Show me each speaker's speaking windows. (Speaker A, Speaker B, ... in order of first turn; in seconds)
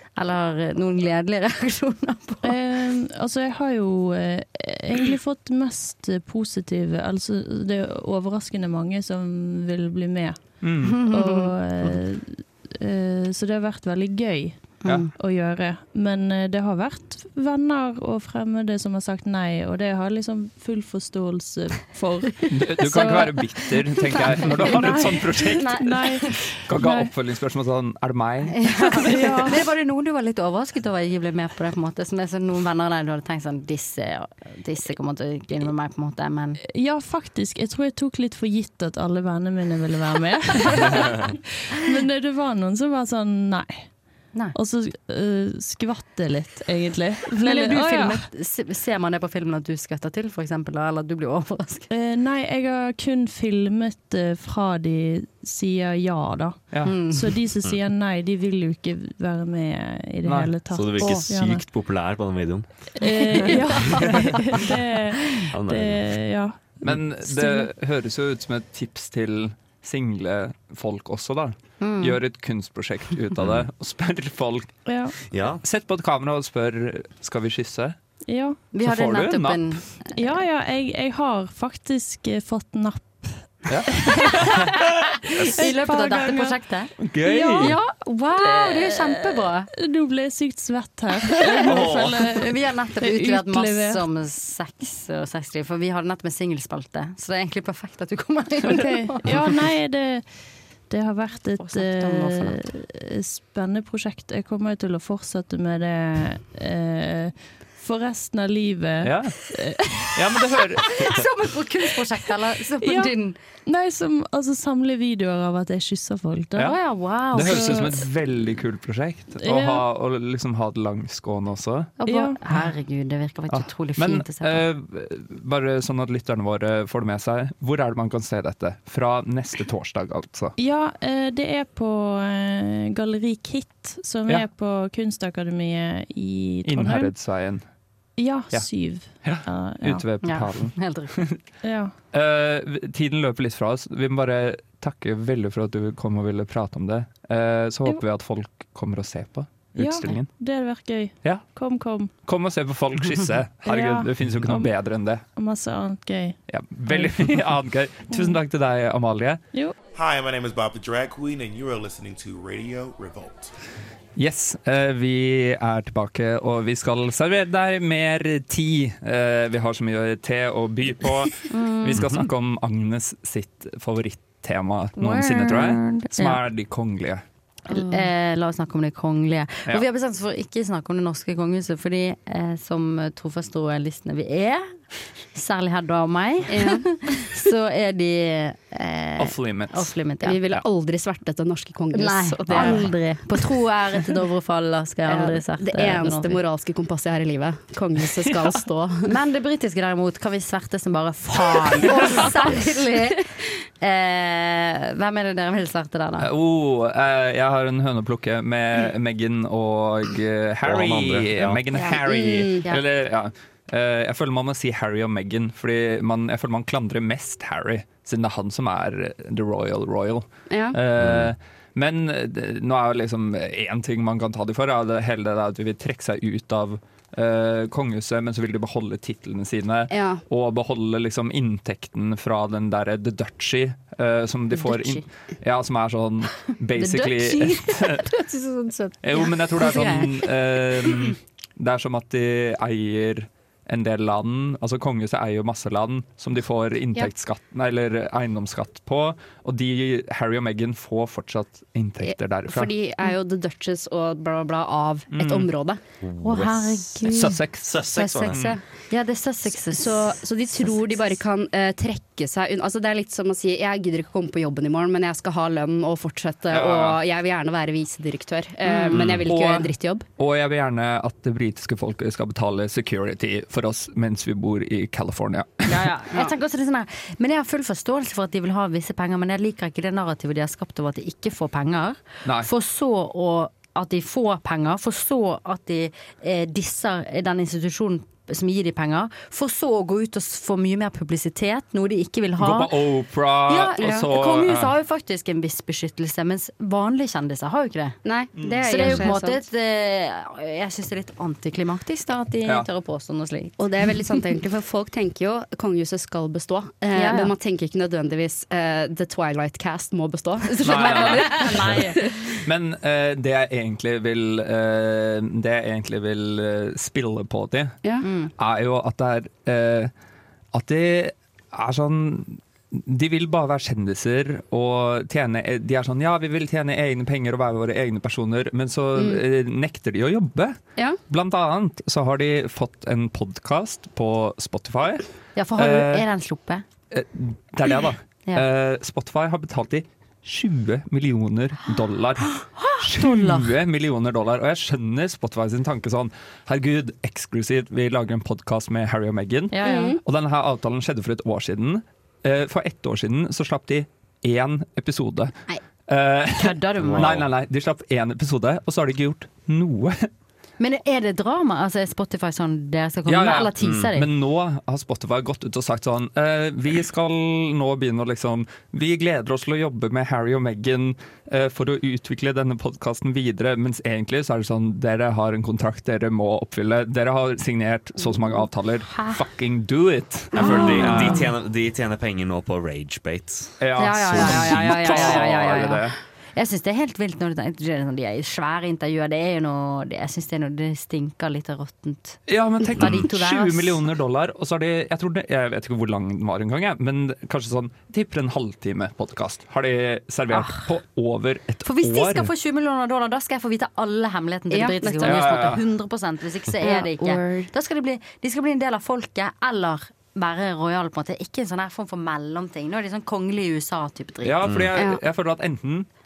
Speaker A: 0.2-2.5, 11.0-11.5, 14.8-15.1, 25.5-26.5, 28.6-36.6, 47.4-51.9, 56.8-57.4, 71.8-72.2, 78.7-80.2, 85.6-89.7, 91.6-99.3, 101.6-102.6, 111.0-113.4, 116.6-118.0, 122.0-124.7, 140.2-141.2, 171.5-172.0, 175.0-176.4, 177.7-190.4, 191.9-196.4, 199.1-206.3, 234.5-235.0, 236.8-240.9, 256.2-260.8, 268.6-269.0, 275.7-292.7, 293.5-304.2, 306.9-307.3, 310.6-312.0, 318.0-318.3, 335.4-336.6, 342.6-343.5, 349.5-350.0, 356.4-357.2, 360.6-364.1, 378.9-379.2, 380.4-381.2, 383.8-392.3, 392.8-393.8, 400.3-400.7, 401.6-414.3
Speaker B: 2.4-27.1, 29.0-29.7, 36.6-48.3, 51.9-61.7, 63.0-67.7, 74.9-75.2, 78.3-78.7, 80.0-84.3, 85.5-94.1, 98.6-110.2, 112.8-118.1, 119.4-119.8, 122.0-122.4, 130.6-137.2, 138.1-140.1, 141.6-141.9, 149.7-152.1, 153.6-158.4
Speaker C: 10.6-11.0, 22.5-29.1, 56.7-57.0, 60.2-61.0, 66.8-74.8, 75.6-78.0, 78.7-79.9, 83.7-84.5, 87.0-87.8, 109.0-111.0, 116.6-121.9, 123.5-130.6, 136.7-138.0, 138.5-141.4, 142.1-155.3, 156.5-159.4, 164.2-177.2, 189.2-189.9, 192.5-192.8, 206.2-238.1, 239.0-252.7, 255.1-255.5, 257.1-258.5, 266.5-267.0, 269.3-275.9, 292.4-294.7, 298.4-298.9, 310.6-311.8, 312.4-317.8, 318.4-319.9, 320.5-330.6, 331.1-335.1, 335.6-336.1, 336.9-355.3, 355.9-360.1, 363.1-381.2, 383.6-386.0, 392.3-402.3, 405.0-405.6, 414.2-415.9
Speaker D: 60.7-63.0, 63.5-64.2, 65.5-67.0, 73.4-73.7, 75.3-75.6, 91.6-92.2, 172.0-172.3, 210.6-211.6, 221.0-221.3, 256.0-256.9, 257.6-258.5, 268.9-269.2, 356.8-357.3, 363.6-363.9, 380.4-385.2, 414.5-414.7
Speaker E: 160.0-163.3
Speaker F: 177.7-177.9, 186.5-186.9, 190.2-192.9, 195.1-199.1, 212.0-212.6, 220.5-220.8, 229.9-230.2, 252.0-255.8, 257.9-258.6, 259.6-270.1, 293.8-294.0, 298.1-299.4, 303.6-312.3, 328.9-329.2, 349.6-350.0, 380.4-380.9, 404.5-405.5, 406.6-407.5, 414.8-415.0